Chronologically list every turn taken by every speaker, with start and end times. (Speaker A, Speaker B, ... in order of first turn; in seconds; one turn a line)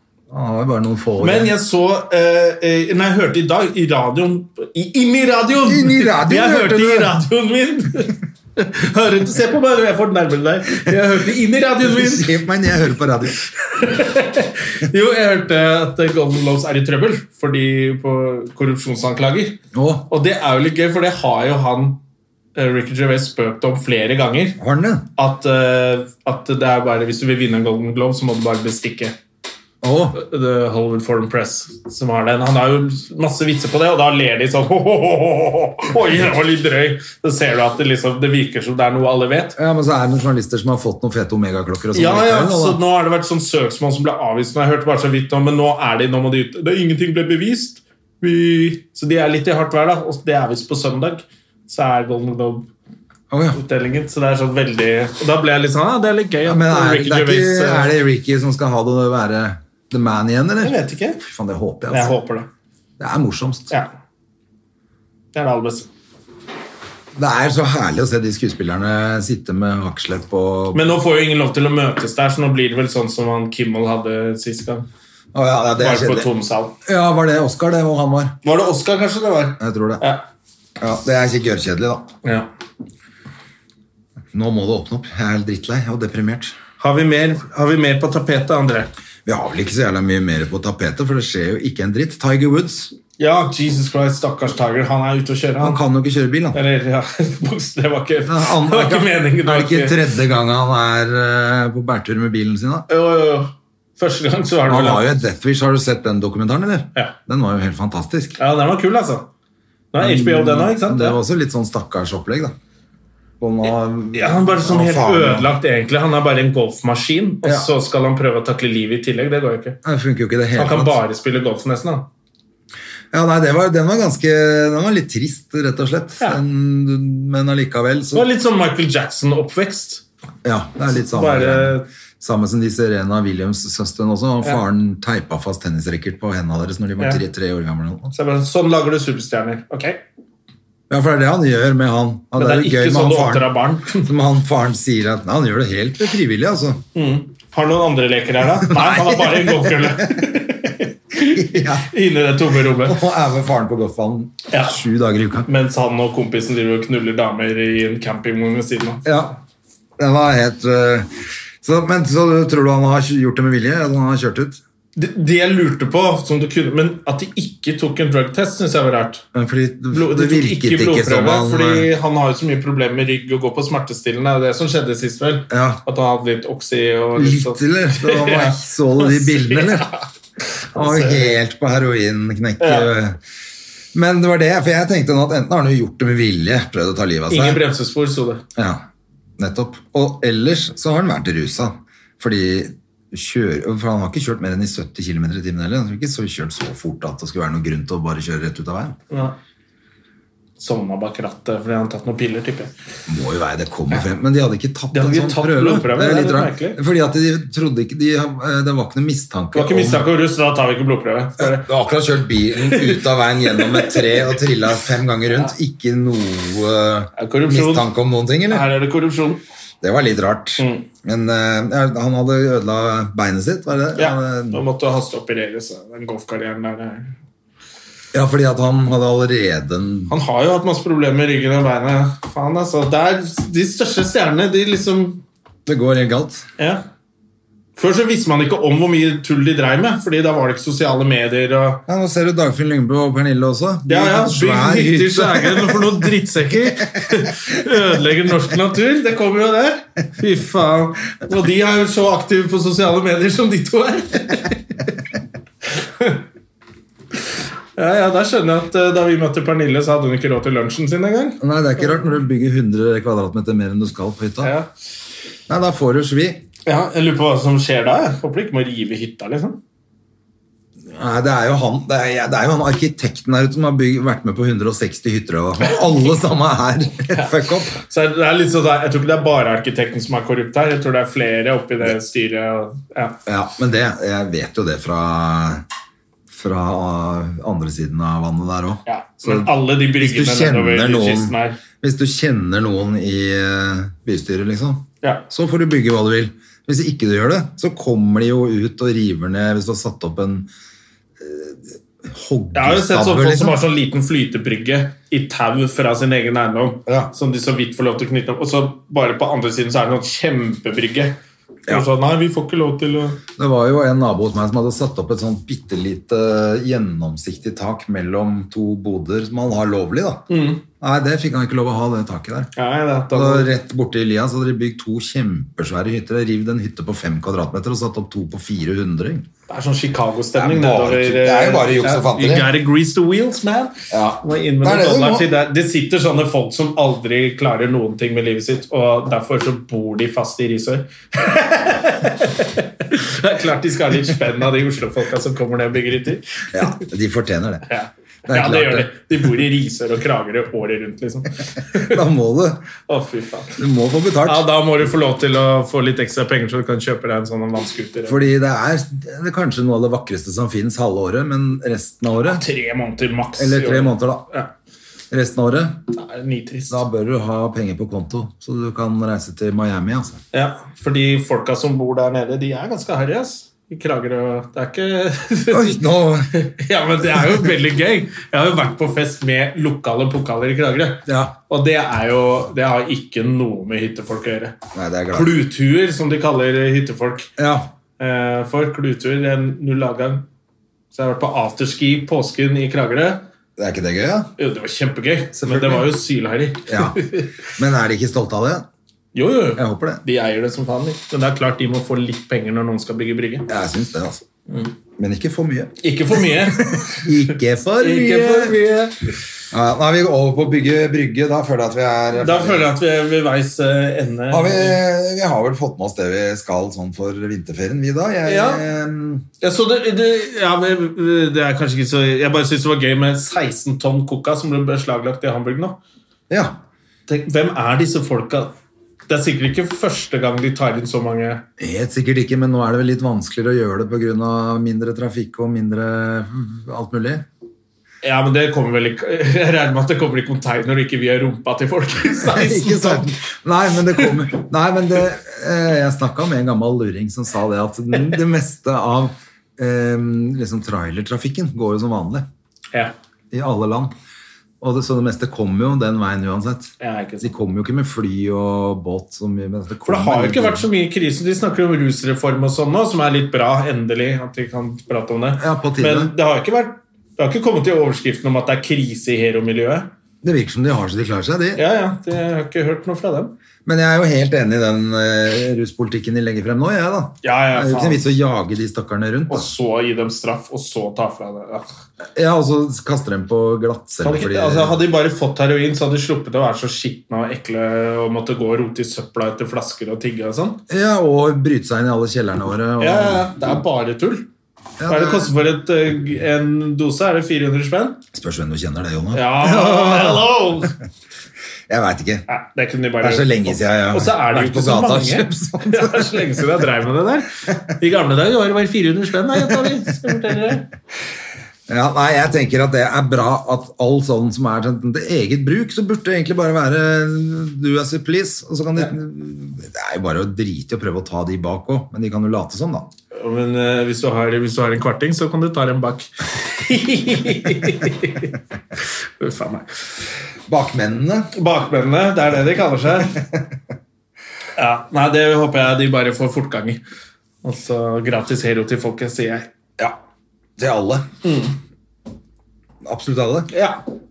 Speaker A: 0.3-1.6
Speaker B: 1.2-12.4
Speaker A: 5.7-7.2
Speaker A: 11.8-13.4
Speaker B: 13.5-22.0
Speaker A: 19.7-20.1
Speaker B: 22.6-24.6
Speaker A: 24.6-25.1
Speaker B: 25.2-29.1
Speaker A: 29.8-30.2
Speaker B: 30.1-39.6
Speaker A: 39.6-42.8
Speaker B: 41.9-52.7
Speaker A: 53.3-53.6
Speaker B: 53.5-57.9
Speaker A: 56.5-62.1
Speaker B: 60.6-61.2
Speaker B: 61.9-62.5
Speaker A: 63.0-63.7
Speaker B: 65.3-65.9
Speaker A: 67.2-70.9
Speaker B: 70.7-74.9
Speaker A: 75.3-76.3
Speaker B: 75.8-76.8
Speaker A: 76.8-78.4
Speaker B: 78.4-80.2
Speaker A: 79.6-80.0
Speaker A: 80.8-82.1
Speaker B: 82.2-82.5
Speaker A: 84.3-86.6
Speaker B: 86.8-88.9
Speaker A: 89.3-92.9
Speaker B: 93.2-95.8
Speaker A: 95.6-96.6
Speaker B: 96.5-100.0
Speaker A: 98.3-102.9
Speaker B: 102.9-105.1
Speaker A: 104.7-108.4
Speaker B: 108.4-109.3
Speaker B: 109.9-111.2
Speaker A: 110.0-112.5
Speaker A: 113.4-115.5
Speaker B: 114.1-119.8
Speaker A: 117.4-117.7
Speaker A: 119.8-121.0
Speaker B: 120.5-122.1
Speaker A: 123.1-128.3
Speaker B: 128.1-130.1
Speaker A: 130.4-138.1
Speaker B: 130.9-131.9
Speaker B: 138.1-140.0
Speaker A: 140.9-146.8
Speaker B: 142.4-144.1
Speaker B: 146.9-153.0
Speaker A: 148.6-150.4
Speaker A: 151.2-151.9
Speaker A: 152.8-155.5
Speaker B: 154.5-154.8
Speaker B: 155.5-159.1
Speaker A: 159.1-159.4
Speaker A: 160.0-161.1
Speaker A: 161.6-164.6
Speaker B: 165.0-169.2
Speaker A: 169.3-171.9
Speaker B: 169.9-181.4
Speaker A: 175.5-175.8
Speaker A: 177.2-179.9
Speaker A: 180.8-183.2
Speaker B: 182.6-182.9
Speaker A: 183.9-187.6
Speaker B: 187.3-188.4
Speaker A: 188.6-188.8
Speaker A: 189.4-199.0
Speaker B: 199.1-199.4
Speaker B: 200.6-202.7
Speaker A: 203.1-210.1
Speaker B: 204.9-206.8
Speaker B: 209.5-211.7
Speaker A: 211.4-218.7
Speaker B: 212.6-214.3
Speaker B: 217.2-217.9
Speaker B: 218.5-219.4
Speaker A: 219.8-224.6
Speaker B: 220.6-220.9
Speaker B: 223.9-227.2
Speaker A: 228.1-230.1
Speaker B: 230.1-235.2
Speaker A: 235.7-236.5
Speaker B: 236.6-236.8
Speaker B: 237.8-241.8
Speaker A: 241.9-246.2
Speaker B: 243.9-254.8
Speaker A: 246.9-247.2
Speaker B: 255.8-256.2
Speaker B: 257.8-261.4
Speaker A: 261.4-264.5
Speaker B: 264.4-264.7
Speaker A: 265.5-266.4
Speaker B: 266.7-269.6
Speaker A: 270.9-277.8
Speaker B: 277.1-283.2
Speaker A: 283.3-285.6
Speaker A: 286.3-300.5
Speaker B: 288.9-291.6
Speaker A: 301.2-303.6
Speaker B: 302.5-311.2
Speaker A: 306.9-307.1
Speaker B: 311.7-313.2
Speaker A: 313.4-320.2
Speaker B: 320.3-320.6
Speaker A: 320.8-322.5
Speaker B: 322.6-323.5
Speaker A: 323.1-329.3
Speaker B: 329.5-346.8
Speaker A: 330.4-332.5
Speaker A: 333.9-335.3
Speaker A: 346.5-347.7
Speaker B: 347.7-352.0
Speaker A: 348.3-348.9
Speaker A: 351.7-352.7
Speaker B: 352.9-353.6
Speaker A: 353.6-354.5
Speaker B: 354.2-358.3
Speaker A: 358.1-362.4
Speaker B: 362.2-364.5
Speaker A: 363.4-364.3
Speaker A: 365.1-365.8
Speaker B: 365.9-366.8
Speaker A: 366.7-370.2
Speaker B: 370.3-384.5
Speaker A: 375.5-376.3
Speaker A: 381.1-381.4
Speaker A: 384.7-385.3
Speaker B: 385.1-387.3
Speaker A: 387.4-387.7
Speaker B: 388.0-390.3
Speaker B: 390.9-393.2
Speaker A: 393.6-394.3
Speaker B: 394.4-397.4
Speaker A: 395.4-395.9
Speaker A: 396.7-398.7
Speaker B: 399.1-403.5
Speaker A: 399.6-400.0
Speaker A: 403.5-404.2
Speaker B: 404.5-404.7
Speaker A: 405.0-405.8
Speaker B: 405.8-409.1
Speaker A: 406.3-408.6
Speaker A: 409.5-412.7
Speaker B: 412.2-414.8
Speaker A: 414.3-419.2
Speaker B: 418.3-418.6
Speaker B: 419.4-425.8
Speaker A: 426.3-426.6
Speaker B: 427.1-428.5
Speaker B: 429.1-431.4
Speaker A: 431.6-437.3
Speaker B: 438.0-443.1
Speaker A: 442.2-452.3
Speaker A: 453.3-453.9
Speaker A: 454.6-460.7
Speaker B: 456.8-457.3
Speaker B: 459.9-469.9
Speaker A: 465.4-466.1
Speaker A: 470.2-471.6
Speaker B: 471.6-473.3
Speaker A: 473.6-479.5
Speaker B: 477.2-478.1
Speaker B: 479.3-481.7
Speaker A: 482.1-484.8
Speaker B: 484.0-490.6
Speaker A: 490.7-493.3
Speaker B: 492.8-494.3
Speaker A: 494.8-495.3
Speaker B: 494.9-498.0
Speaker A: 498.1-500.7
Speaker B: 499.1-500.8
Speaker A: 501.7-502.3
Speaker B: 502.3-510.7
Speaker A: 503.0-506.4
Speaker A: 511.7-522.9
Speaker B: 523.1-529.7
Speaker A: 530.5-531.3
Speaker B: 531.3-533.2
Speaker A: 533.2-533.4
Speaker B: 534.6-536.8
Speaker B: 537.4-539.5
Speaker A: 540.6-541.1
Speaker B: 541.2-541.6
Speaker A: 542.8-543.5
Speaker B: 543.5-543.8